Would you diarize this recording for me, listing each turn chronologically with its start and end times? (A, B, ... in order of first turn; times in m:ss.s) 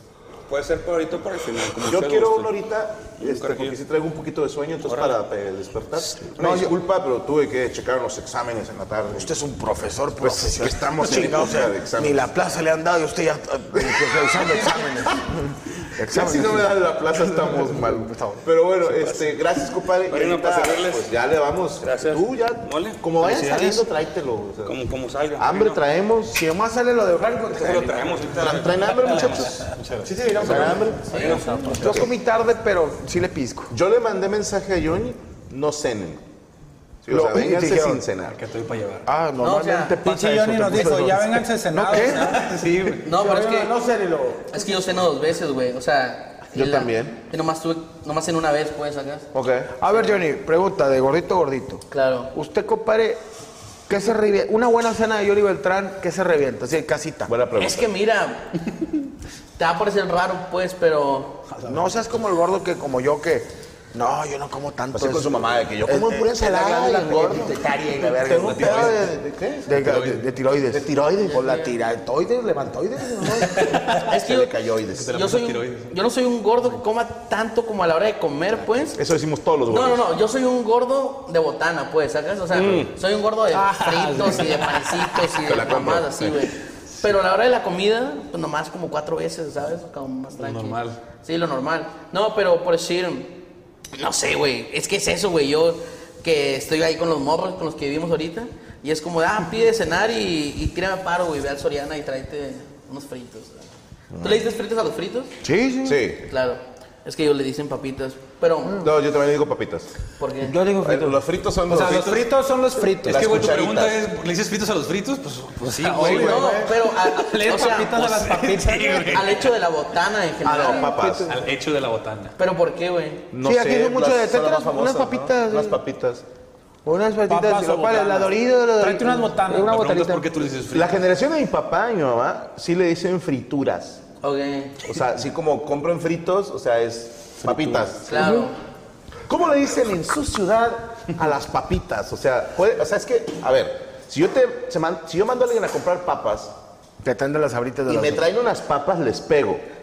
0:00.5-0:02.5 A
0:01.8-0:09.3 B
0:03.2-0:03.8 A
0:04.9-0:05.1 A
0:06.4-0:06.7 C
0:09.1-0:16.8 C
0:10.2-0:12.3 B
0:13.8-0:14.3 B
0:16.0-0:24.8 B
0:17.4-0:18.4 C
0:18.9-0:19.2 A
0:20.0-0:21.1 A
0:21.8-0:23.4 A
0:23.2-0:23.8 C
0:24.6-0:25.8 A
0:25.4-0:26.4 B
0:26.3-0:28.4 C
0:27.5-0:29.5 A
0:28.3-0:29.7 B
0:28.9-0:30.3 D
0:30.0-0:33.7 C
0:30.3-0:31.2 B
0:31.1-0:31.6 A
0:31.1-0:31.5 E
0:31.3-0:31.8 F
0:31.8-0:32.1 B
0:33.7-0:36.2 B
0:37.0-0:38.4 B
0:37.1-0:38.0 C
0:38.2-0:39.1 D
0:39.0-0:42.4 C
0:39.4-0:40.0 E
0:40.0-0:43.0 F
0:42.2-0:43.0 D
0:43.0-0:43.7 E
0:43.1-0:44.9 C
0:44.5-0:49.3 E
0:46.5-0:47.2 B
0:49.3-0:49.7 B
0:49.8-0:53.2 C
0:49.9-0:50.2 E
0:51.9-0:52.3 E
0:53.9-0:57.3 C
0:57.2-0:57.9 B
0:57.6-0:58.6 E
0:59.6-1:01.4 E
1:01.6-1:09.0 C
1:04.9-1:10.1 B
1:08.5-1:08.8 D
1:09.6-1:13.9 C
1:10.7-1:11.4 B
1:11.3-1:11.7 E
1:13.9-1:14.5 E
1:14.1-1:15.2 B
1:14.9-1:15.9 D
1:15.1-1:19.0 E
1:18.9-1:20.0 B
1:19.7-1:33.3 E
1:22.5-1:22.9 B
1:23.5-1:24.4 F
1:25.4-1:26.4 B
1:30.4-1:31.0 D
1:33.9-1:43.6 E
1:44.1-1:44.4 B
1:44.2-1:45.3 E
1:45.4-1:46.0 C
1:45.8-1:46.2 B
1:46.3-1:48.9 E
1:48.8-1:49.9 B
1:50.2-1:50.6 E
1:50.5-1:51.1 F
1:50.8-1:52.2 B
1:51.7-1:53.4 F
1:51.8-1:52.2 D
1:52.9-1:56.7 D
1:53.0-1:54.0 B
1:55.7-1:59.2 F
1:56.0-1:56.6 B
1:56.0-1:58.2 E
1:57.4-1:59.5 D
1:59.1-2:00.9 E
2:00.4-2:01.3 B
2:01.2-2:02.4 D
2:02.4-2:03.2 E
2:03.3-2:06.2 B
2:03.4-2:05.8 C
2:06.8-2:10.3 C
2:07.2-2:09.8 F
2:09.5-2:11.0 D
2:10.7-2:14.0 B
2:14.2-2:14.8 E
2:14.8-2:18.4 B
2:17.4-2:18.5 F
2:18.0-2:18.6 E
2:19.3-2:26.5 B
2:27.0-2:28.3 C
2:27.9-2:29.6 B